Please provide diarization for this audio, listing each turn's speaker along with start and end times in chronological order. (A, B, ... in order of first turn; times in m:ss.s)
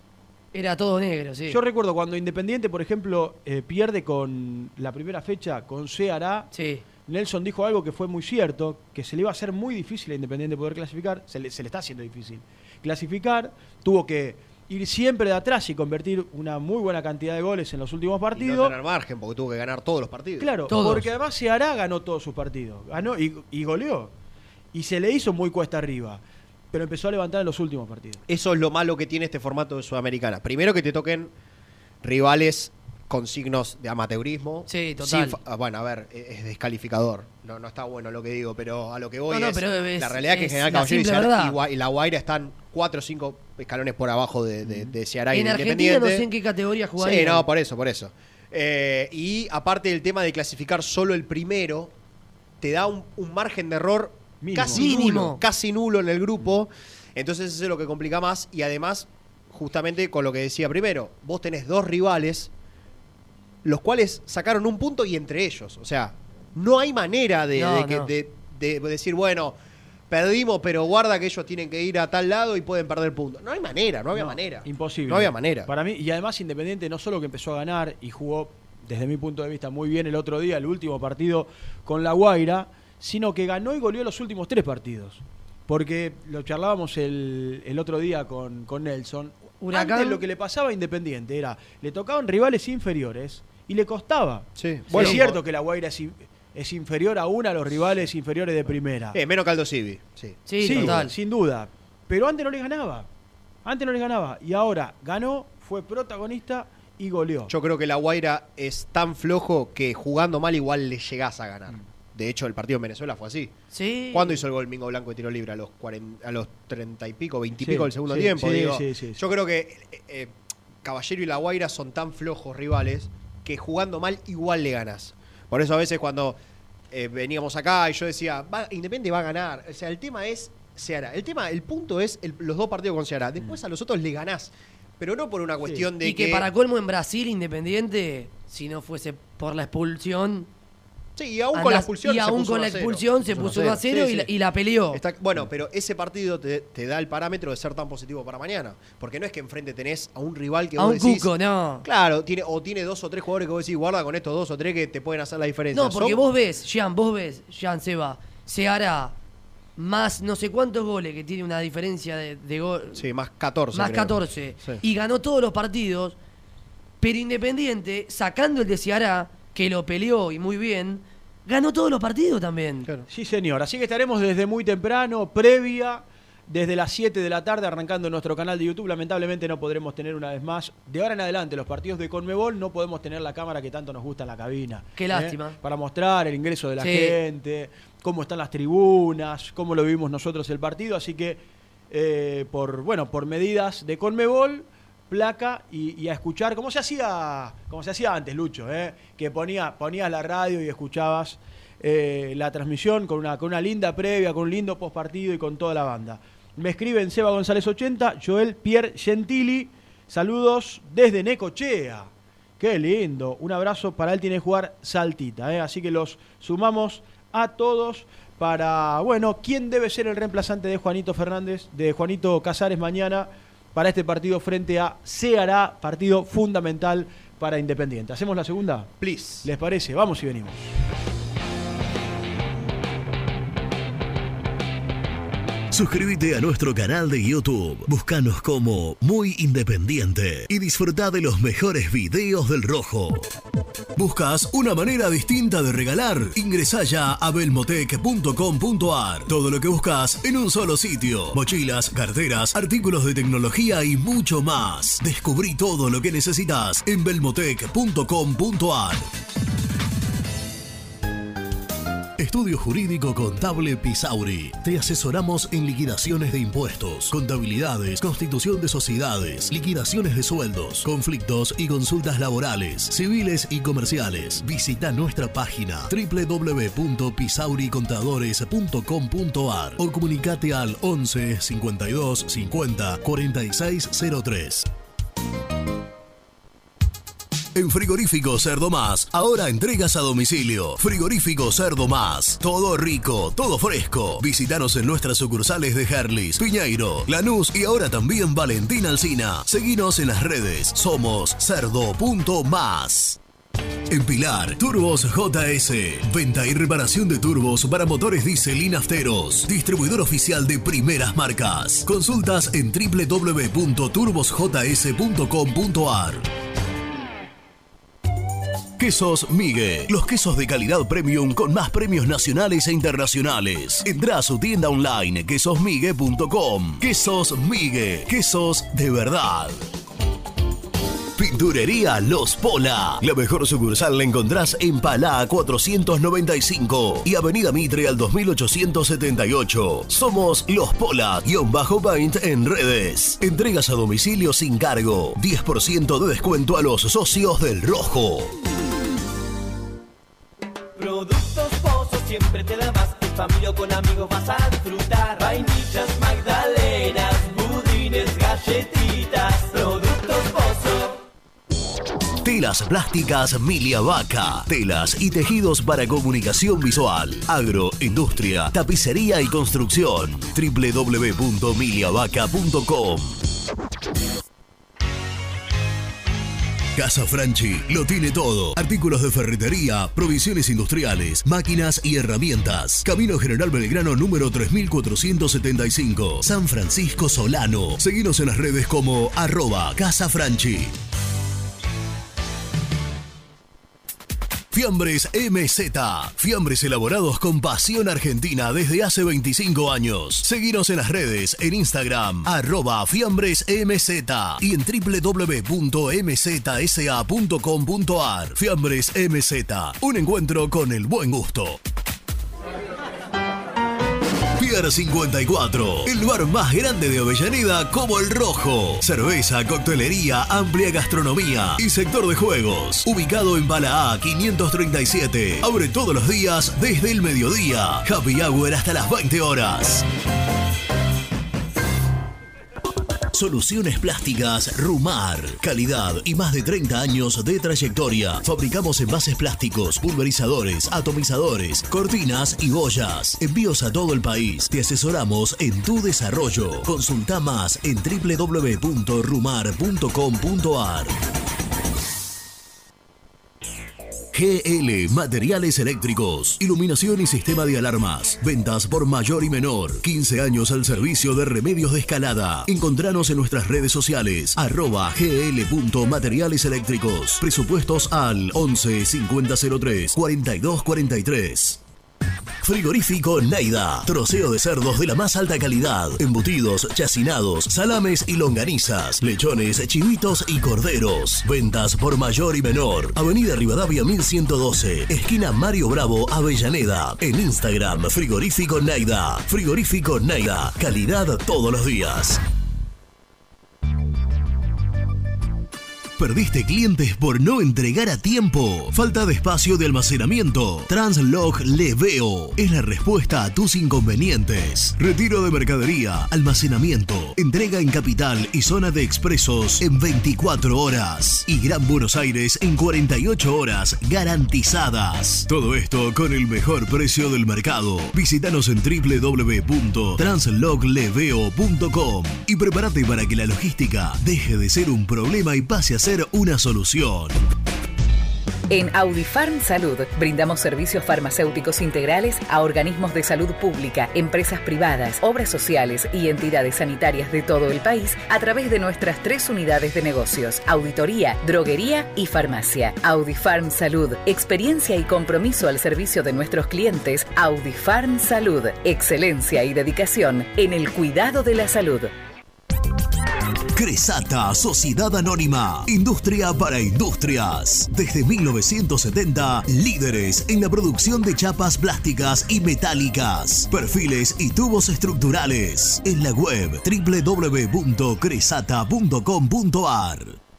0:00.5-0:01.6 A
0:01.5-0:06.5 B
0:06.5-0:06.8 A
0:07.1-0:18.8 B
0:18.3-0:20.5 C
0:20.4-0:24.1 B
0:20.7-0:21.1 A
0:24.7-0:26.2 B
0:26.7-0:28.2 B
0:28.3-0:31.3 C
0:32.0-0:46.3 C
0:34.7-0:35.4 A
0:39.3-0:41.6 A
0:44.6-0:44.9 B
0:45.3-0:47.5 A
0:47.0-0:51.9 C
0:52.6-1:02.5 C
0:54.4-0:55.2 B
0:54.7-0:55.4 A
1:03.6-1:09.6 C
1:07.6-1:08.1 A
1:10.1-1:15.7 C
1:14.1-1:39.2 B
1:29.6-1:30.2 A
1:34.6-1:35.4 C
1:39.1-1:41.1 C
1:40.5-1:41.1 A
1:40.6-1:43.1 B
1:43.6-1:47.5 B
1:47.5-1:53.5 C
1:53.7-1:54.4 A
1:54.1-2:06.4 C
1:57.6-1:59.2 B
2:06.9-2:16.5 C
2:15.6-2:15.9 B
2:16.0-2:20.5 A
2:21.2-2:24.3 C
2:21.5-2:25.0 A
2:24.9-2:31.3 C
2:30.8-2:31.8 A
2:31.8-2:36.2 C
2:35.7-2:39.1 A
2:39.8-2:43.0 A
2:43.0-2:44.8 C
2:43.7-2:46.2 A
2:47.0-2:52.9 A
2:53.1-3:48.9 B
3:05.0-3:05.6 A
3:06.8-3:07.2 A
3:49.0-3:49.5 C
3:49.4-3:50.7 B
3:55.7-4:03.2 D
4:04.0-4:19.0 D
4:22.2-4:44.7 D
4:47.6-5:03.2 D
5:03.9-5:16.2 D
5:18.8-5:29.6 D
5:31.2-5:48.3 D
5:50.8-6:01.0 E
6:02.2-6:13.2 D
6:16.8-6:30.7 D
6:34.5-6:51.6 D
6:54.4-7:09.8 D
7:13.1-7:30.9 D
7:34.1-7:51.6 D
7:52.4-8:12.2 D
8:16.0-8:47.2 D
8:48.5-9:11.9 F
9:13.6-9:30.2 D